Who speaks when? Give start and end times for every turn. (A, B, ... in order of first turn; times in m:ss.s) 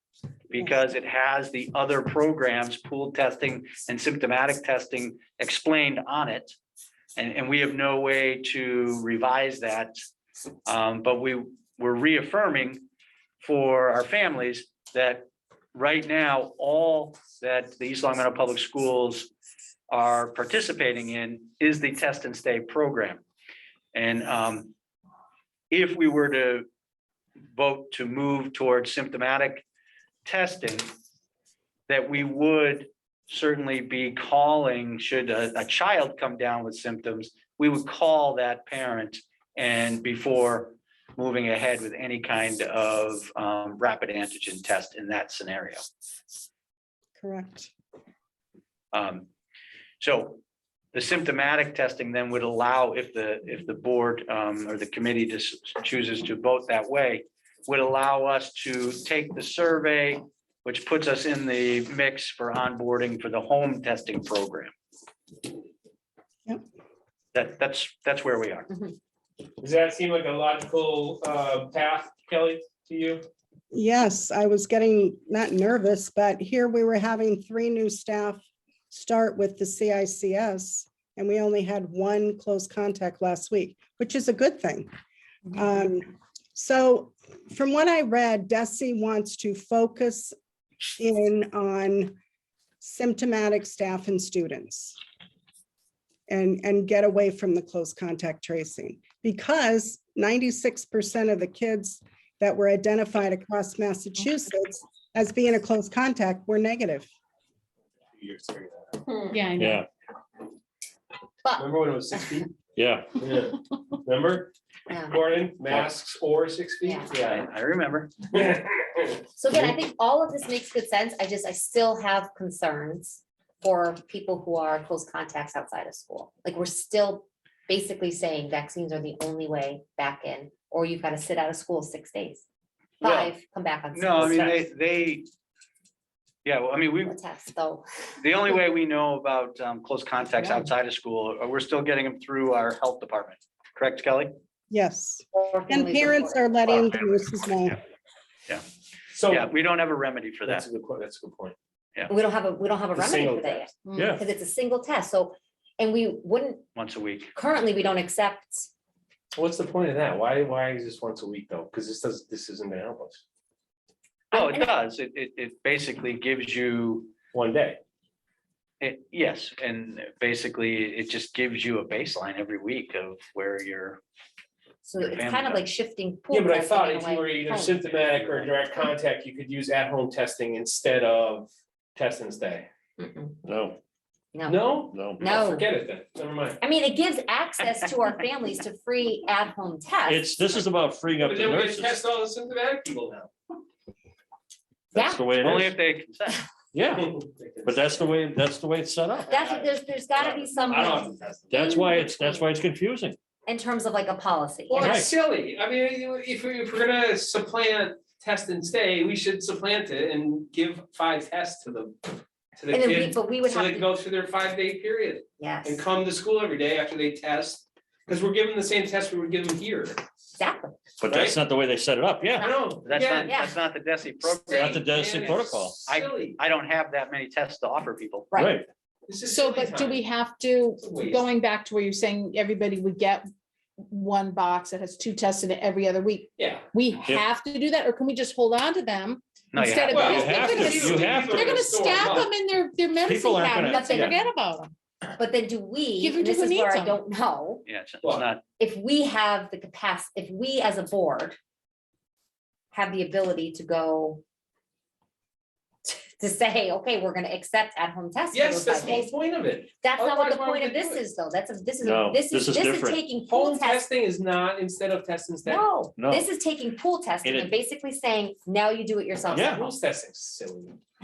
0:00.5-0:06.6 A
0:07.2-0:09.9 A
0:10.6-0:12.8 A
0:13.4-0:19.3 A
0:19.9-0:23.2 A
0:23.9-0:24.7 A
0:25.7-0:26.7 A
0:27.5-0:29.6 A
0:30.2-0:30.9 A
0:31.9-0:45.8 A
0:47.2-0:47.7 B
0:48.9-0:49.2 A
0:50.0-0:50.4 A
0:50.9-1:04.7 A
1:07.3-1:08.8 A
1:09.6-1:13.3 C
1:13.7-1:24.9 B
1:25.5-1:30.3 B
1:31.0-1:32.2 B
1:32.8-1:35.0 B
1:36.3-1:47.1 B
1:48.1-1:49.0 C
1:49.3-1:49.8 D
1:49.5-1:49.8 E
1:51.4-1:52.3 F
1:51.6-1:52.6 C
1:52.8-1:53.2 E
1:53.2-1:54.5 C
1:54.9-1:55.3 F
1:55.1-1:57.4 C
1:56.8-1:57.1 F
1:57.2-1:58.1 A
1:58.3-1:59.2 C
1:59.4-2:12.4 F
2:13.0-2:14.6 F
2:13.0-2:13.3 A
2:13.9-2:15.2 A
2:16.4-2:17.2 A
2:17.0-2:17.8 F
2:18.2-2:24.3 A
2:24.7-2:27.8 B
2:25.3-2:26.9 F
2:29.1-2:29.5 C
2:29.3-2:30.6 A
2:30.4-2:31.5 C
2:32.1-2:36.6 F
2:32.9-2:33.8 C
2:33.8-2:34.2 D
2:33.9-2:34.2 E
2:36.7-2:37.3 A
2:37.3-2:38.7 F
2:39.3-2:43.2 C
2:44.3-2:44.7 F
2:44.3-2:47.1 A
2:47.3-2:47.8 C
2:48.8-2:54.0 A
2:54.8-2:58.4 F
2:55.0-2:55.6 A
2:56.3-3:02.7 C
3:03.0-3:03.4 F
3:03.4-3:03.8 E
3:04.3-3:05.7 F
3:04.4-3:06.6 C
3:04.9-3:05.2 E
3:06.6-3:10.3 F
3:10.0-3:12.0 E
3:11.2-3:13.3 C
3:14.9-3:15.7 E
3:14.9-3:15.2 F
3:15.4-3:16.4 A
3:16.7-3:17.0 E
3:16.9-3:18.1 C
3:17.6-3:19.4 E
3:19.2-3:22.5 F
3:19.3-3:21.3 C
3:21.5-3:23.2 E
3:23.4-3:25.0 F
3:24.7-3:40.0 C
3:24.8-3:25.1 E
3:32.7-3:33.9 F
3:35.4-3:35.8 F
3:40.4-3:40.8 F
3:41.0-3:42.5 E
3:41.0-3:41.4 C
3:42.4-3:43.3 C
3:42.4-3:43.6 F
3:42.8-3:44.9 A
3:44.2-3:46.4 C
3:44.5-3:45.8 E
3:45.9-3:48.3 A
3:48.3-3:48.6 F
3:48.4-3:48.6 E
3:49.1-3:50.0 C
3:49.2-3:53.2 D
3:50.8-3:51.3 C
3:53.9-4:04.7 D
3:56.4-3:56.7 C
3:59.5-4:00.7 A
3:59.9-4:02.3 C
4:00.0-4:01.7 E
4:03.0-4:04.2 E
4:03.6-4:04.1 F
4:03.9-4:04.2 C
4:05.2-4:07.6 F
4:06.0-4:07.0 D
4:07.6-4:08.4 A
4:08.6-4:11.4 F
4:12.7-4:14.2 F
4:15.8-4:19.1 F
4:18.3-4:21.0 C
4:19.8-4:23.9 F
4:21.8-4:23.0 E
4:23.3-4:25.7 C
4:25.4-4:29.6 F
4:26.0-4:26.3 E
4:27.2-4:27.6 E
4:29.3-4:29.6 E
4:29.3-4:30.8 C